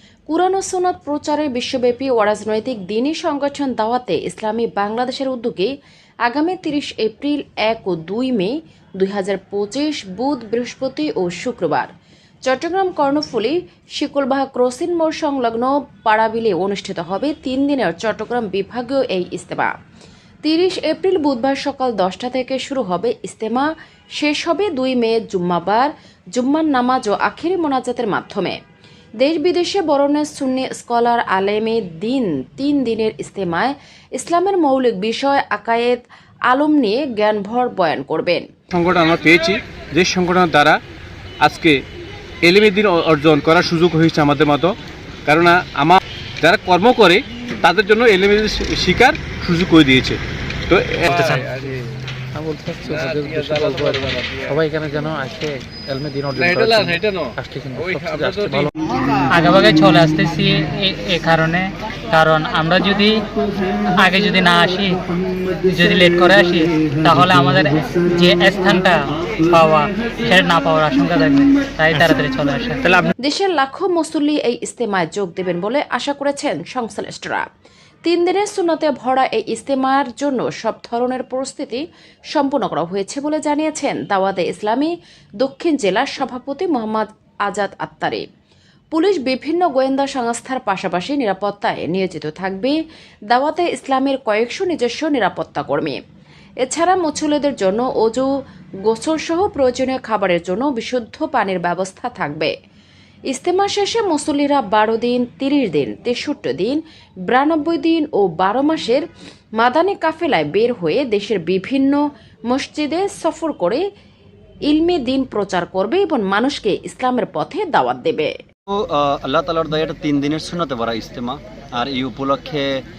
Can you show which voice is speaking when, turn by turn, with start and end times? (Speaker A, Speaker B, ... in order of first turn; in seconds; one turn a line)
Speaker A: 0.3-5.7
Speaker A: 6.3-11.9
Speaker A: 12.5-19.7
Speaker A: 20.4-28.6
Speaker A: 29.2-38.5
Speaker B: 38.7-40.8
Speaker B: 41.4-41.8
Speaker B: 42.4-44.7
Speaker B: 45.3-50.2
Speaker B: 50.7-51.7
Speaker C: 51.1-51.5
Speaker D: 51.1-51.4
Speaker C: 52.4-58.7
Speaker B: 52.9-54.6
Speaker B: 56.4-58.7
Speaker D: 59.3-63.2
Speaker D: 64.0-65.0
Speaker D: 65.7-73.1
Speaker A: 73.2-77.5
Speaker A: 78.0-81.8
Speaker A: 82.3-88.2
Speaker A: 88.9-92.8
Speaker A: 93.3-96.0
Speaker A: 96.6-98.3
Speaker A: 98.9-102.5
Speaker A: 103.3-109.0
Speaker A: 109.6-113.8
Speaker A: 114.7-118.3
Speaker E: 118.7-122.7